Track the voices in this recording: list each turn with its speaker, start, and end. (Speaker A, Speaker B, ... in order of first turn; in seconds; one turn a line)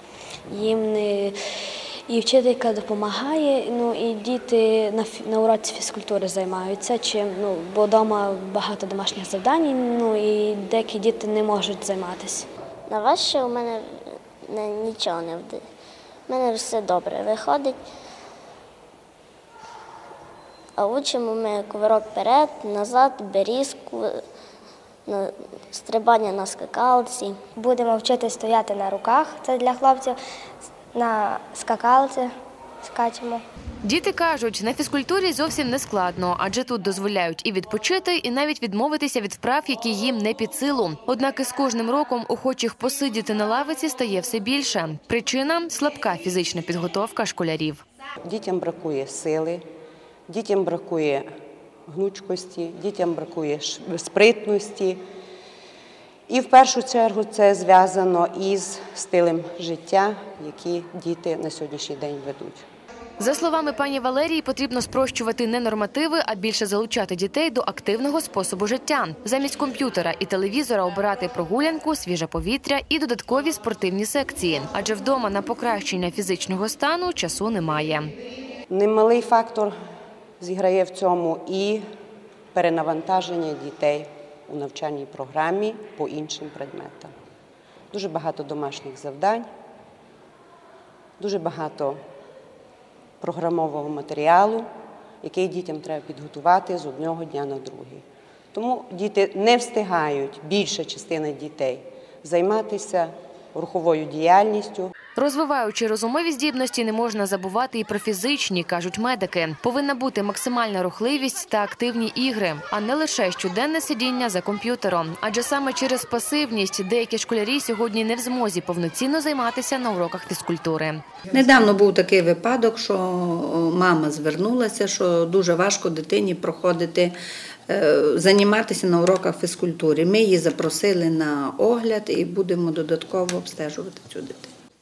Speaker A: 0.5-1.4
Speaker A: 2.1-12.5
Speaker B: 12.9-15.6
Speaker B: 16.3-17.8
Speaker B: 20.8-24.2
Speaker B: 25.1-27.4
Speaker C: 27.6-30.2
Speaker C: 30.9-33.4
Speaker D: 33.8-47.8
Speaker E: 48.2-49.6
Speaker E: 50.3-51.2
Speaker E: 51.9-55.0
Speaker E: 56.3-62.6
Speaker D: 63.2-78.1
Speaker E: 78.7-79.7
Speaker E: 80.4-81.8
Speaker E: 82.5-87.1
Speaker E: 87.9-89.5
Speaker E: 91.2-92.0
Speaker E: 93.2-94.7
Speaker E: 95.2-104.9
Speaker D: 105.2-121.0
Speaker F: 121.3-127.1
Speaker F: 127.7-134.5